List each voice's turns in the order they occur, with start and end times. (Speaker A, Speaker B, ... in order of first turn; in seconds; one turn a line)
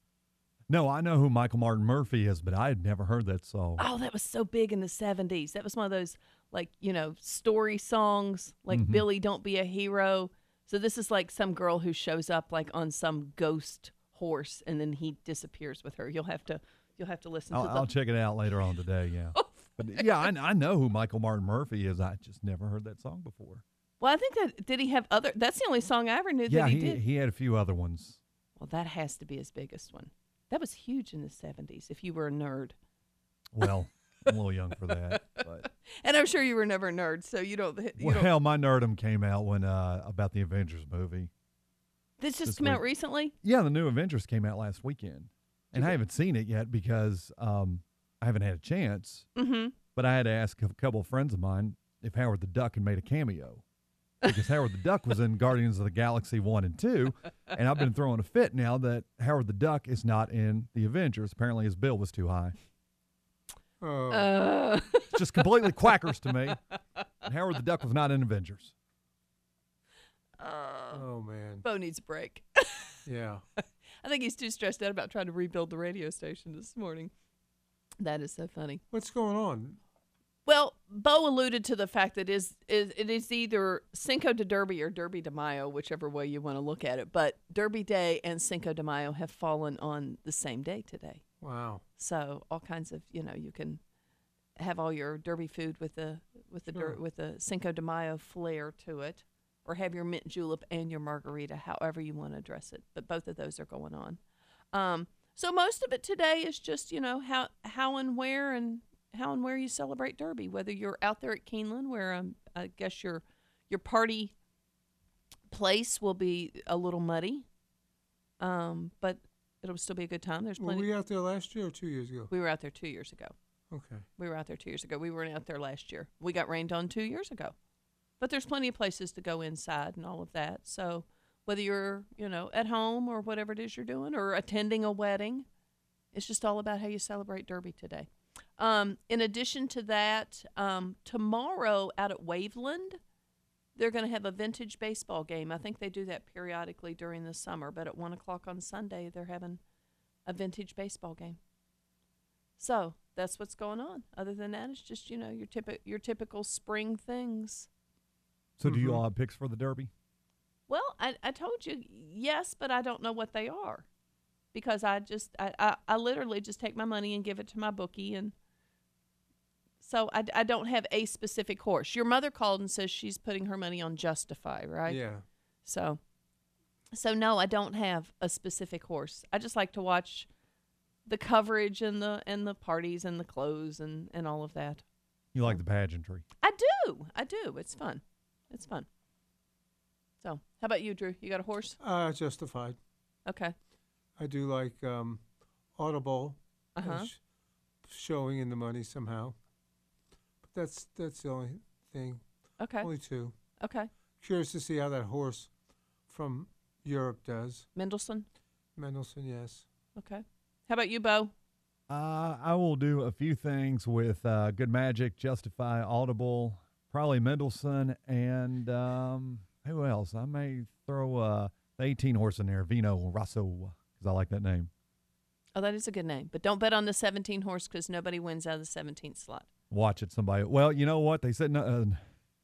Speaker A: 0.7-3.9
Speaker B: 3.8-17.9
Speaker A: 8.7-9.1
Speaker A: 17.5-23.6
Speaker B: 24.0-27.0
Speaker A: 26.5-28.2
Speaker B: 28.6-32.8
Speaker A: 33.5-35.7
Speaker B: 35.9-38.3
Speaker A: 38.0-41.3
Speaker B: 42.2-43.4
Speaker A: 42.5-42.8
Speaker A: 43.4-49.3
Speaker B: 49.4-49.8
Speaker A: 50.0-53.6
Speaker A: 54.2-62.6
Speaker C: 63.8-64.5
Speaker B: 64.1-65.1
Speaker A: 65.1-66.6
Speaker A: 67.2-68.7
Speaker B: 70.4-71.0
Speaker C: 70.9-71.7
Speaker B: 71.6-72.9
Speaker C: 73.1-73.4
Speaker B: 74.0-77.1
Speaker B: 78.0-78.8
Speaker C: 78.9-79.8
Speaker B: 80.5-91.2
Speaker C: 91.4-91.8
Speaker B: 92.0-93.8
Speaker B: 94.6-104.2
Speaker C: 96.7-97.0
Speaker B: 104.7-114.3
Speaker B: 115.5-117.5
Speaker B: 118.4-120.9
Speaker C: 120.6-122.3
Speaker B: 122.3-123.3
Speaker C: 123.7-124.1
Speaker B: 124.2-127.5
Speaker B: 128.2-135.5
Speaker B: 136.1-143.0
Speaker B: 143.8-149.6
Speaker B: 150.3-151.4
Speaker B: 152.6-157.7
Speaker A: 158.6-159.9
Speaker C: 158.6-159.0
Speaker B: 160.7-163.9
Speaker B: 164.5-168.3
Speaker B: 169.8-175.0
Speaker C: 174.9-175.2
Speaker B: 175.7-176.0
Speaker B: 176.9-180.3
Speaker B: 181.1-184.8
Speaker A: 185.3-186.2
Speaker B: 186.4-188.9
Speaker B: 190.2-191.8
Speaker C: 191.8-192.8
Speaker B: 193.3-193.6
Speaker C: 194.2-195.2
Speaker C: 195.8-197.2
Speaker B: 196.8-197.1
Speaker C: 197.8-199.4
Speaker C: 200.5-202.2
Speaker B: 202.6-202.9
Speaker C: 202.8-203.4
Speaker B: 203.6-203.9
Speaker C: 204.2-205.5
Speaker C: 206.1-207.7
Speaker B: 207.8-208.3
Speaker C: 208.8-209.7
Speaker B: 210.0-211.3
Speaker A: 211.9-224.7
Speaker B: 225.6-229.5
Speaker A: 229.7-232.0